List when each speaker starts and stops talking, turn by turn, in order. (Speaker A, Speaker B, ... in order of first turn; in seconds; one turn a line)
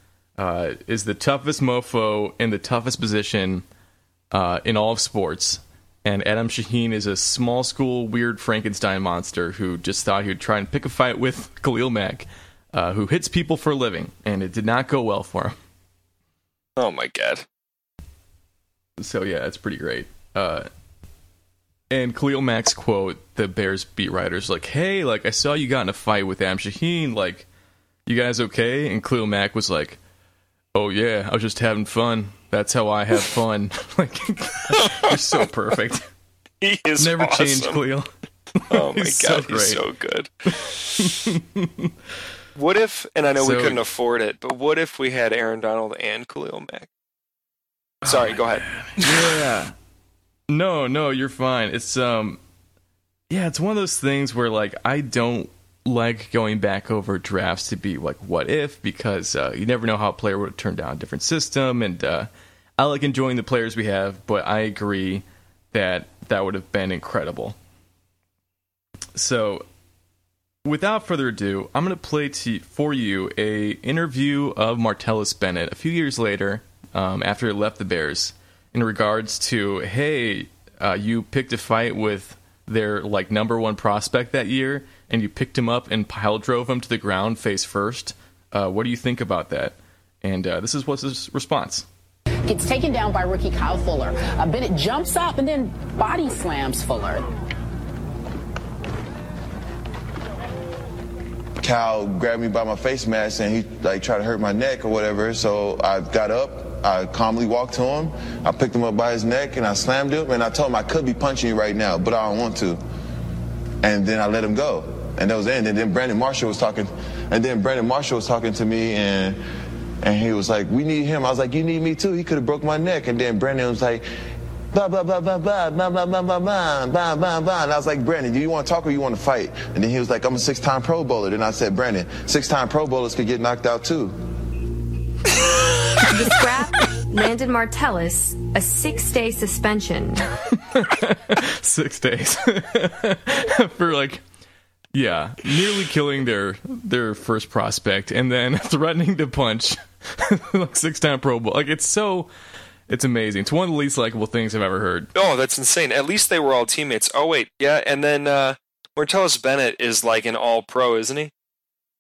Speaker A: 0.4-3.6
Speaker A: 4.3-15.6
Speaker B: 16.8-17.5
Speaker A: 19.0-20.7
Speaker A: 21.9-27.5
Speaker A: 28.1-30.0
Speaker A: 30.7-36.1
Speaker B: 34.7-35.2
Speaker B: 36.6-37.8
Speaker A: 37.0-39.8
Speaker B: 38.7-41.2
Speaker A: 41.0-41.9
Speaker B: 42.6-46.9
Speaker A: 43.4-43.8
Speaker A: 48.0-49.8
Speaker B: 48.0-49.4
Speaker A: 50.5-52.4
Speaker A: 53.3-67.6
Speaker A: 69.2-69.7
Speaker A: 70.7-91.9
Speaker C: 92.5-97.3
Speaker D: 101.6-112.8
Speaker D: 113.8-119.4
Speaker D: 120.0-124.0
Speaker D: 124.7-134.2
Speaker E: 136.0-140.3
Speaker A: 140.5-144.2
Speaker A: 144.9-152.3
Speaker A: 152.9-155.1
Speaker B: 155.2-161.3